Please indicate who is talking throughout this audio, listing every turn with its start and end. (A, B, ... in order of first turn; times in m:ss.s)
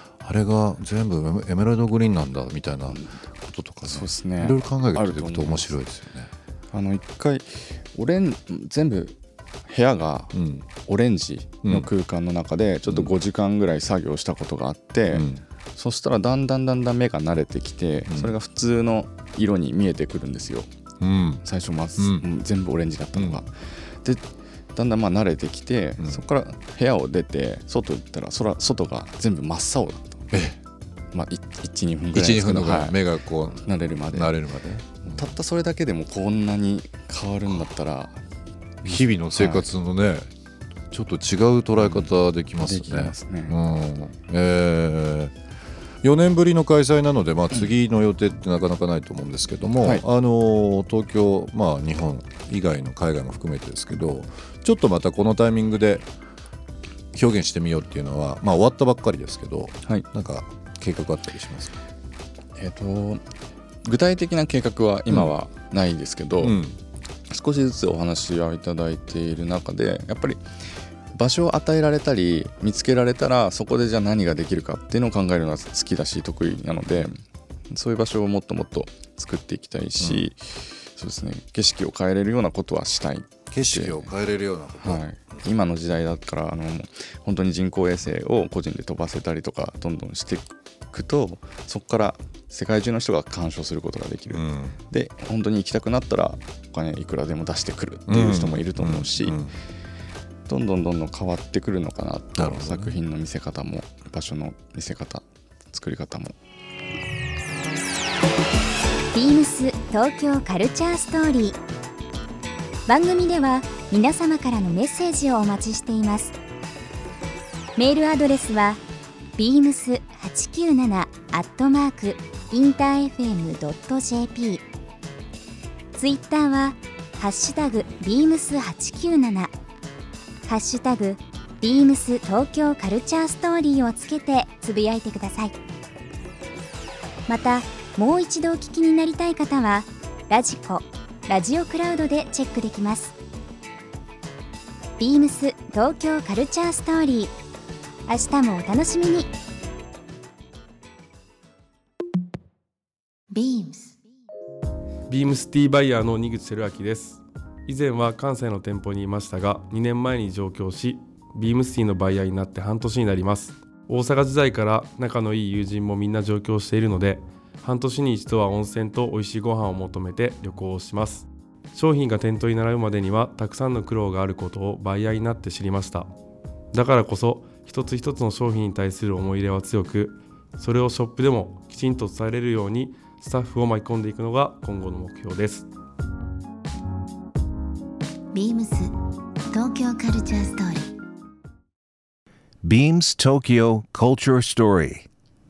0:00.2-0:06.3 A
0:03.9-0:05.8 B
0:06.7-0:20.7 B
0:10.3-0:10.6 A
0:12.9-0:13.1 A
0:15.1-0:15.4 A
0:18.1-0:18.3 A
0:21.0-0:21.4 A
0:21.4-0:30.2 B
0:22.0-0:22.2 A
0:23.1-0:23.4 A
0:26.0-0:26.3 A
0:30.3-0:30.6 A
0:31.1-0:33.0 B
0:32.1-0:35.4 A
0:33.6-0:34.4 B
0:35.0-0:38.2 B
0:38.8-0:40.3 A
0:38.9-0:39.6 B
0:40.9-0:45.3 A
0:41.8-0:43.6 B
0:46.0-0:56.1 A
0:57.1-1:01.8 A
1:02.6-1:03.2 B
1:03.8-1:06.6 B
1:05.1-1:05.4 A
1:06.4-1:06.8 A
1:07.3-1:10.4 B
1:11.1-1:24.1 B
1:20.0-1:20.3 A
1:23.5-1:25.0 A
1:24.8-1:39.4 B
1:34.3-1:34.8 A
1:38.1-1:39.5 A
1:40.5-1:46.3 B
1:42.4-1:43.0 A
1:49.1-1:51.6 C
1:52.9-1:56.3 C
1:57.8-1:58.8 C
1:59.4-2:04.6 C
2:05.9-2:09.5 C
2:10.4-2:15.5 C
2:17.3-2:23.1 C
2:25.0-2:27.3 C
2:28.0-2:29.3 C
2:33.3-2:34.0 D
2:35.1-2:56.1 E
2:56.7-3:05.7 E
3:08.3-3:08.9 D
3:09.5-3:10.9 D
3:12.6-3:15.0 F